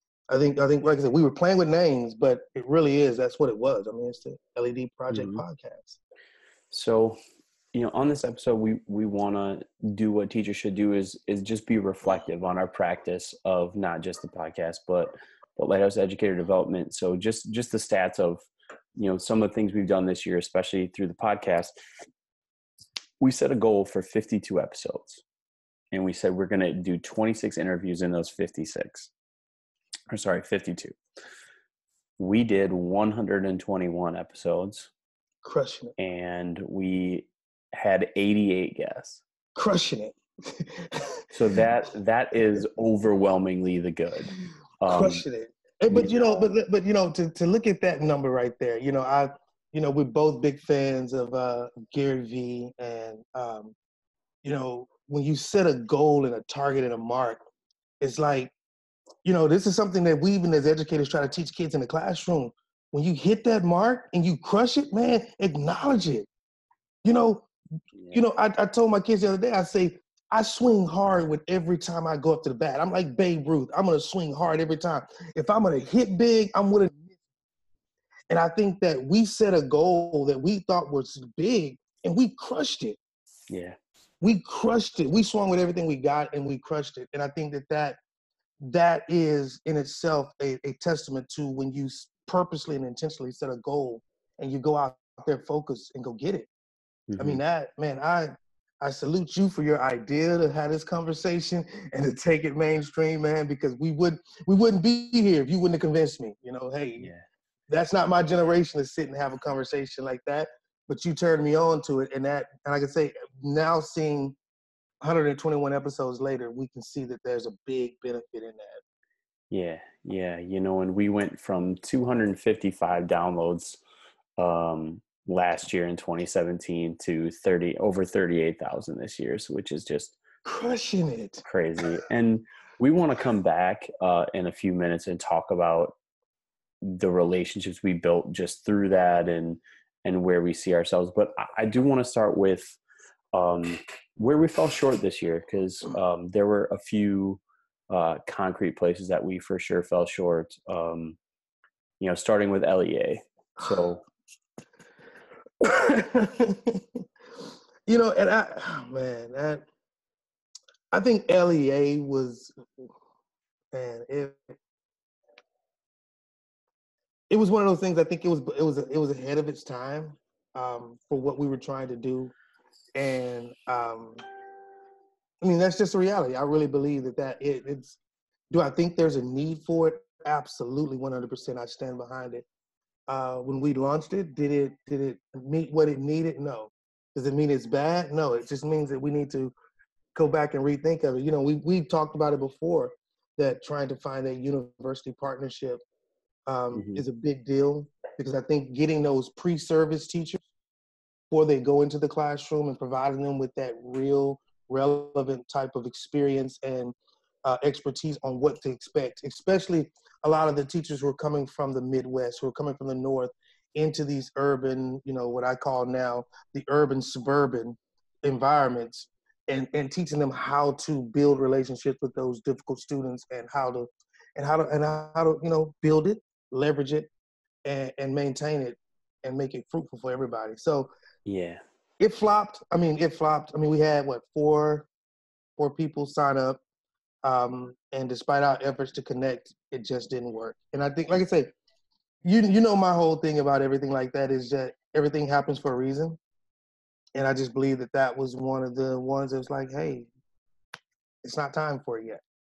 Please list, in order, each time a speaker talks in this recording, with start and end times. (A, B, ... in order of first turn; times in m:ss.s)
0:00.3-0:06.0 A
0:05.1-0:05.4 B
0:06.7-0:07.2 B
0:07.7-0:21.7 B
0:23.2-0:25.2 B
0:25.9-0:29.1 B
0:30.1-0:31.0 B
0:32.2-0:34.9 B
0:35.4-0:35.9 A
0:36.0-0:39.2 B
0:39.5-0:41.3 A
0:41.3-0:45.2 B
0:44.9-0:53.7 A
0:45.9-0:46.2 B
0:54.4-0:57.4 A
0:58.0-0:58.5 A
0:59.2-1:06.3 A
1:07.0-1:07.5 A
1:07.9-1:08.2 B
1:08.1-1:17.2 A
1:18.3-1:23.0 A
1:23.5-1:23.8 B
1:24.2-1:28.0 A
1:28.6-1:36.5 A
1:37.1-1:37.4 B
1:37.2-1:47.1 A
1:47.0-1:47.2 B
1:47.7-1:54.4 A
1:55.0-1:58.8 A
1:59.5-2:03.8 B
2:04.4-2:10.2 B
2:10.4-2:11.4 A
2:11.4-2:15.9 B
2:16.8-2:22.8 B
2:23.3-2:31.2 B
2:32.0-2:34.0 B
2:35.6-2:37.0 A
2:37.9-2:39.6 A
2:40.9-2:42.9 A
2:43.7-2:44.6 A
2:47.3-2:52.3 A
2:53.0-2:54.2 A
2:55.4-2:58.0 A
2:58.5-3:02.4 A
3:03.1-3:09.5 A
3:10.1-3:15.8 A
3:16.5-3:20.4 A
3:16.7-3:17.0 B
3:21.3-3:47.1 A
3:47.6-3:50.9 A
3:51.2-3:51.6 B
3:52.0-3:54.9 A
3:55.6-3:56.6 A
3:57.2-4:01.5 A
4:02.2-4:06.2 A
4:07.1-4:10.1 A
4:11.2-4:12.2 A